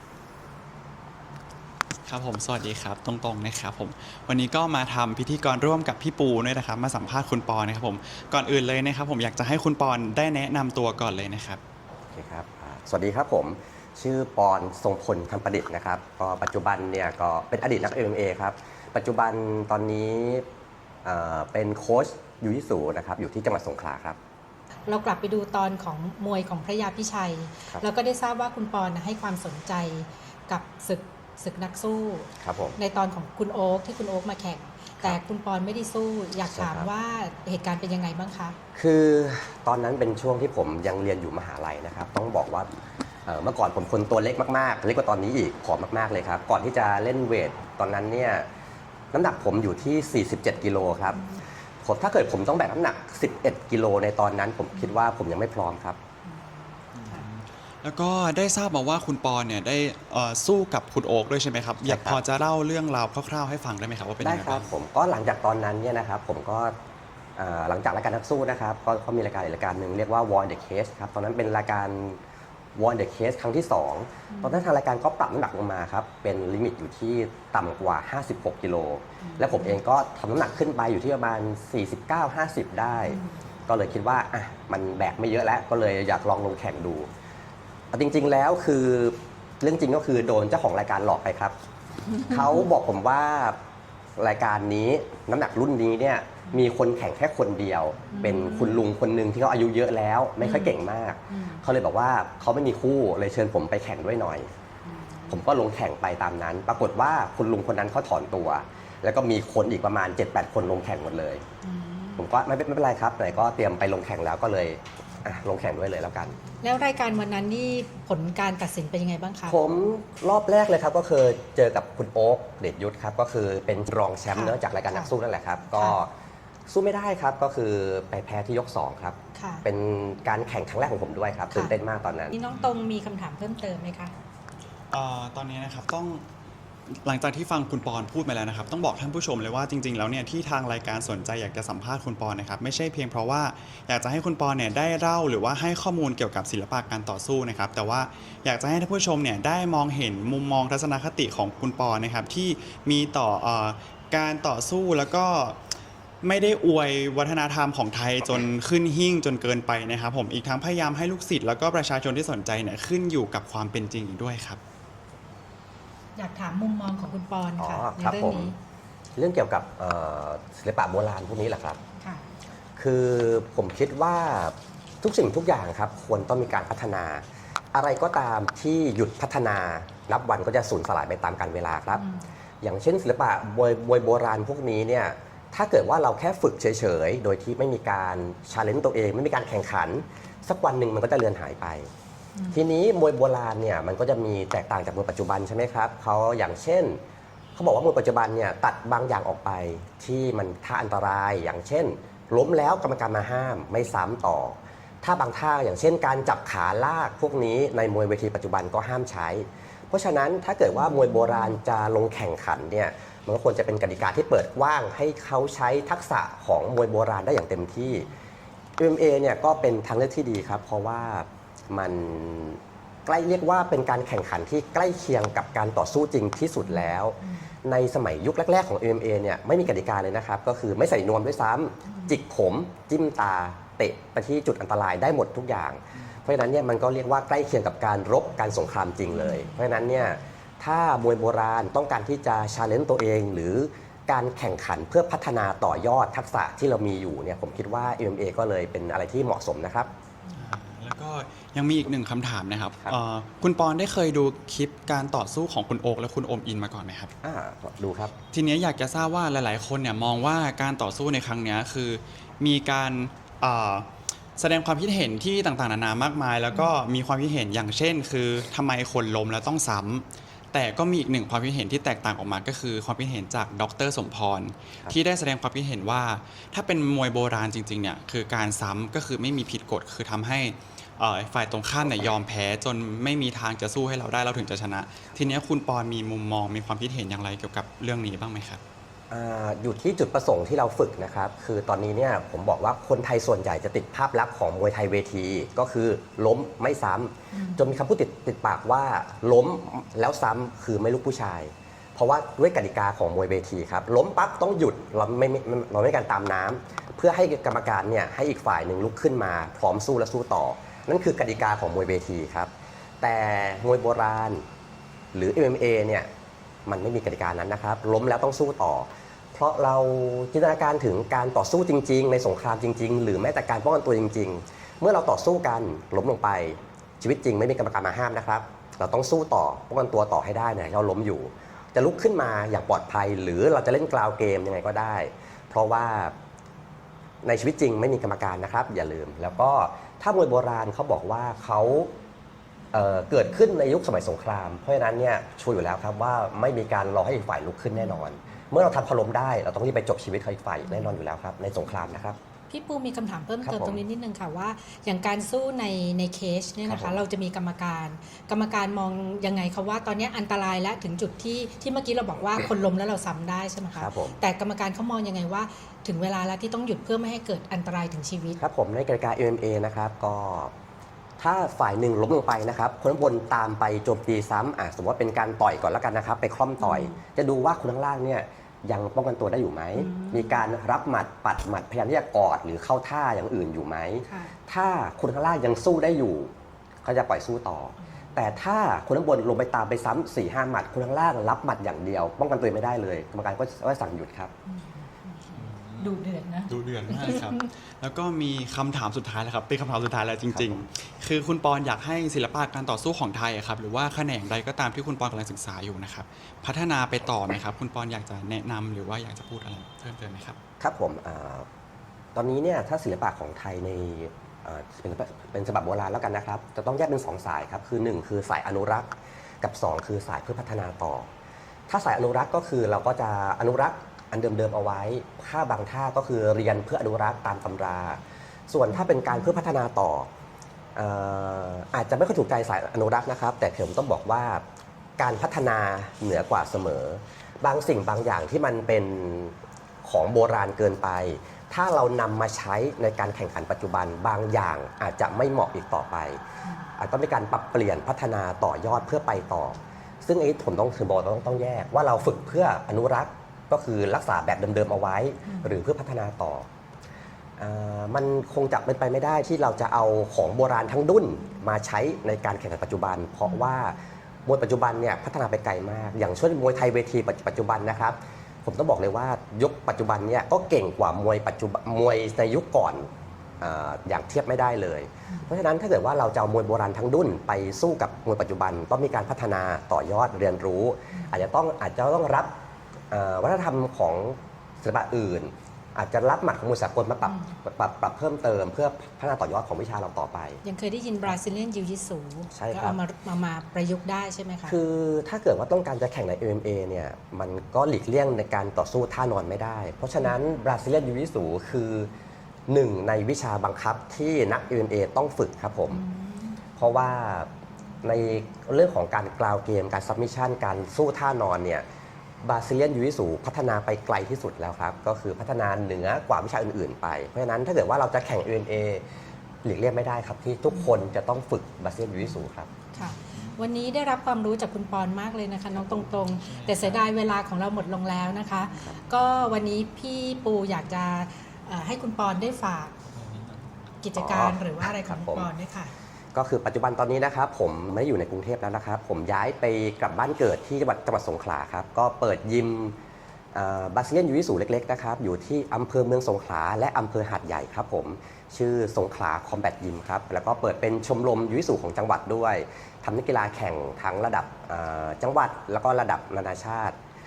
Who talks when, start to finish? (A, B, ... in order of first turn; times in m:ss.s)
0:02.0-0:11.6 A
0:12.1-0:20.4 B
0:21.0-0:24.2 B
0:24.9-0:38.6 C
0:32.4-0:32.8 B
0:36.5-0:36.9 B
0:38.7-0:42.7 B
0:43.2-0:48.4 B
0:49.1-0:51.2 B
0:51.1-0:51.4 C
0:51.8-0:56.0 B
0:56.2-0:57.2 C
0:56.9-1:04.7 A
1:01.8-1:02.2 B
1:04.2-1:06.7 B
1:07.4-1:12.2 B
1:12.7-1:27.1 B
1:14.3-1:14.6 C
1:19.2-1:19.8 C
1:23.1-1:23.3 C
1:27.9-1:31.5 B
1:32.1-1:32.5 C
1:32.2-1:33.6 B
1:34.2-1:44.5 B
1:38.1-1:38.8 C
1:40.4-1:40.7 C
1:41.3-1:41.6 C
1:44.8-1:45.4 C
1:45.3-1:51.4 B
1:51.6-1:52.3 C
1:52.2-1:56.4 B
1:56.6-1:59.6 C
1:59.5-2:06.1 B
2:04.3-2:05.1 C
2:06.7-2:12.4 B
2:09.3-2:09.6 C
2:12.3-2:14.1 C
2:14.9-2:16.2 A
2:16.9-2:35.6 A
2:36.2-2:44.6 A
2:46.2-2:48.6 C
2:47.6-2:48.5 B
2:49.2-2:51.8 B
2:52.0-2:52.2 C
2:52.8-3:02.0 B
3:01.9-3:02.3 C
3:02.6-3:11.9 B
3:12.3-3:12.6 C
3:12.5-3:17.0 B
3:17.5-3:38.1 B
3:30.9-3:31.2 C
3:38.8-4:09.9 B
3:46.7-3:47.5 C
3:51.8-3:52.2 C
3:59.1-3:59.6 C
4:10.3-4:17.1 A
4:17.2-4:18.1 B
4:18.3-4:48.6 A
4:49.1-5:12.5 B
4:57.3-4:57.7 C
5:13.0-5:14.4 B
5:15.1-5:16.1 B
5:16.6-5:36.1 B
5:37.2-5:41.9 B
5:42.7-5:52.2 B
5:52.5-6:08.4 C
5:53.4-5:53.8 B
5:56.6-5:57.0 B
6:03.7-6:04.2 B
6:08.4-6:10.5 B
6:11.2-6:26.3 B
6:16.6-6:17.0 C
6:19.7-6:20.4 C
6:24.0-6:24.3 C
6:26.8-6:34.3 B
6:34.5-6:37.5 C
6:35.3-6:35.9 A
6:36.5-6:50.4 A
6:40.3-6:40.6 B
6:50.6-6:51.4 B
6:52.1-7:01.1 B
7:01.7-7:10.1 B
7:08.8-7:09.3 C
7:10.8-7:14.4 B
7:15.0-7:26.2 B
7:26.4-7:26.7 C
7:26.8-7:36.4 B
7:35.2-7:35.6 C
7:37.4-7:52.9 B
7:53.4-8:02.3 B
8:02.9-8:10.4 B
8:07.0-8:07.3 C
8:10.4-8:14.6 C
8:12.3-8:12.8 B
8:14.4-8:21.9 B
8:22.5-8:25.8 B
8:25.7-8:26.4 C
8:26.6-8:27.3 B
8:27.8-8:31.6 B
8:32.2-8:38.8 B
8:39.4-8:42.5 B
8:42.7-8:52.7 C
8:53.0-8:53.3 A
8:53.8-8:55.7 C
8:53.9-8:55.3 B
8:56.1-9:02.8 B
9:03.3-9:16.8 B